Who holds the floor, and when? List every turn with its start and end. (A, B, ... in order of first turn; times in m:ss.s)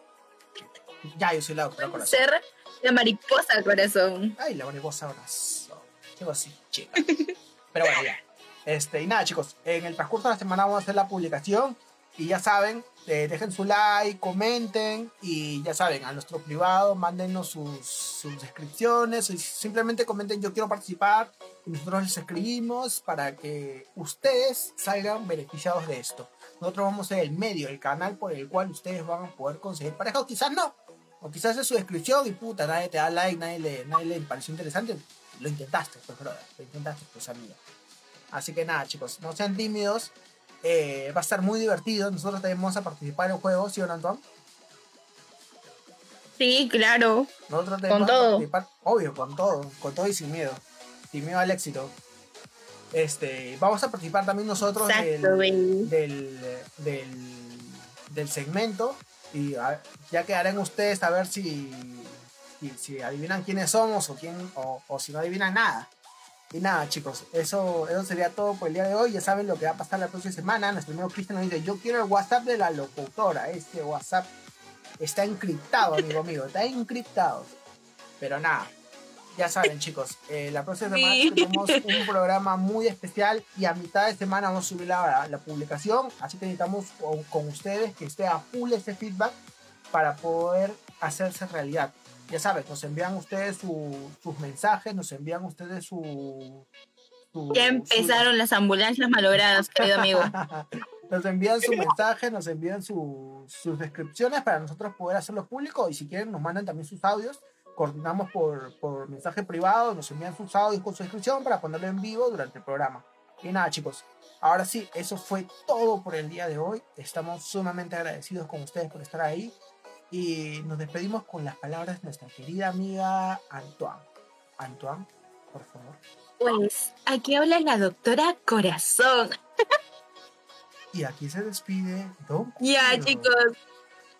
0:01.0-0:02.2 A
0:01.8-0:04.3 B
0:04.4-0:07.0 A
0:07.0-0:07.3 B
0:07.7-0:37.6 A
0:38.3-0:44.2 A
0:46.4-0:47.3 B
0:47.5-0:52.0 A
0:47.9-0:48.5 B
0:52.9-1:05.9 A
0:54.8-0:55.9 B
1:06.5-1:14.3 A
1:15.0-1:17.5 A
1:18.2-1:18.7 A
1:19.4-1:29.3 A
1:20.9-1:21.8 B
1:29.9-1:36.7 A
1:37.3-1:38.3 A
1:37.5-1:40.3 B
1:39.4-1:59.6 A
2:00.1-2:06.0 A
2:06.4-2:09.4 B
2:10.9-2:13.4 A
2:12.6-2:13.5 B